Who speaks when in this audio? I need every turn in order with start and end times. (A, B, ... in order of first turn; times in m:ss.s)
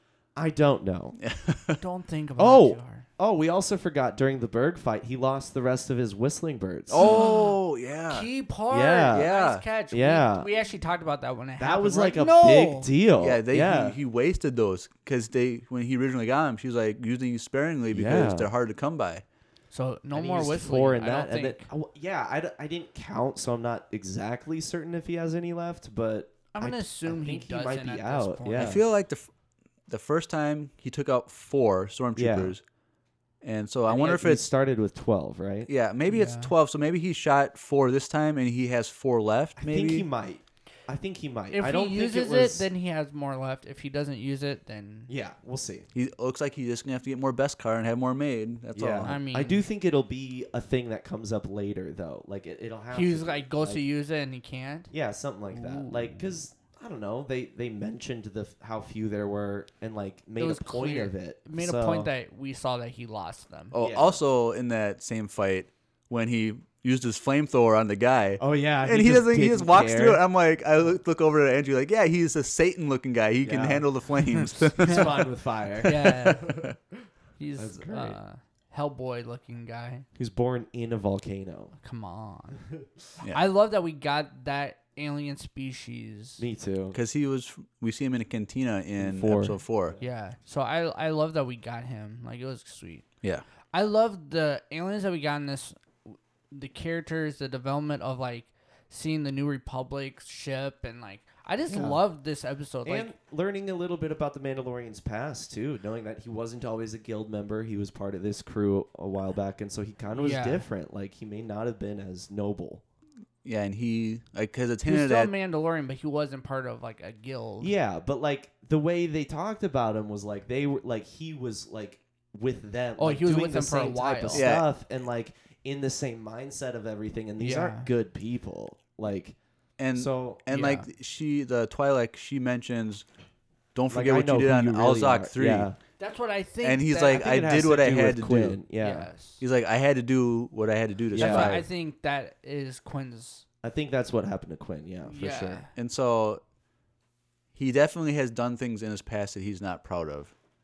0:00.3-0:01.2 A
0:01.2-0:01.8 B
0:01.8-0:03.0 C
0:02.4-0:07.2 A
0:06.9-0:08.3 B
0:07.0-0:07.6 C
0:08.1-0:12.9 C
0:08.7-0:09.3 A
0:09.1-0:09.6 B
0:09.9-0:10.5 A
0:11.6-0:14.0 A
0:13.2-0:19.2 B
0:17.9-0:18.5 A
0:19.7-0:21.7 C
0:20.1-0:28.8 A
0:26.5-0:28.8 C
0:28.6-0:29.3 B
0:29.9-0:32.6 B
0:32.2-0:32.5 A
0:33.4-0:34.4 B
0:33.9-0:35.7 A
0:35.7-0:40.1 B
0:36.1-0:36.5 C
0:39.6-0:42.7 A
0:41.5-0:45.1 C
0:45.1-0:45.9 A
0:45.9-0:49.1 B
0:48.7-0:53.8 A
0:49.0-0:49.6 C
0:52.9-0:54.9 C
0:54.9-1:02.1 A
0:55.5-0:56.3 C
1:00.4-1:03.7 C
1:03.7-1:15.3 B
1:03.8-1:04.2 A
1:08.4-1:10.2 A
1:13.4-1:13.8 A
1:14.4-1:15.0 C
1:14.7-1:16.8 A
1:15.8-1:16.6 C
1:17.4-1:20.0 C
1:17.6-1:18.2 A
1:20.2-1:21.7 A
1:21.8-1:22.7 C
1:23.2-1:26.4 C
1:26.4-1:27.0 A
1:26.9-1:30.0 B
1:29.0-1:30.0 A
1:30.0-1:33.0 C
1:33.7-1:43.1 C
1:41.7-1:42.0 A
1:42.8-1:52.8 A
1:50.2-1:50.6 C
1:53.4-1:55.3 B
1:54.9-1:57.7 C
1:57.6-2:09.4 A
2:03.0-2:04.5 C
2:04.3-2:04.6 B
2:07.4-2:07.9 C
2:09.8-2:13.0 B
2:09.9-2:10.4 A
2:10.5-2:10.9 C
2:13.7-2:15.7 B
2:13.9-2:15.8 A
2:16.0-2:17.3 C
2:16.6-2:18.6 B
2:17.1-2:19.1 A
2:18.8-2:19.4 C
2:19.4-2:21.7 B
2:21.1-2:21.6 A
2:21.1-2:23.4 C
2:23.6-2:25.6 A
2:25.0-2:25.7 C
2:25.8-2:26.4 B
2:27.5-2:30.3 B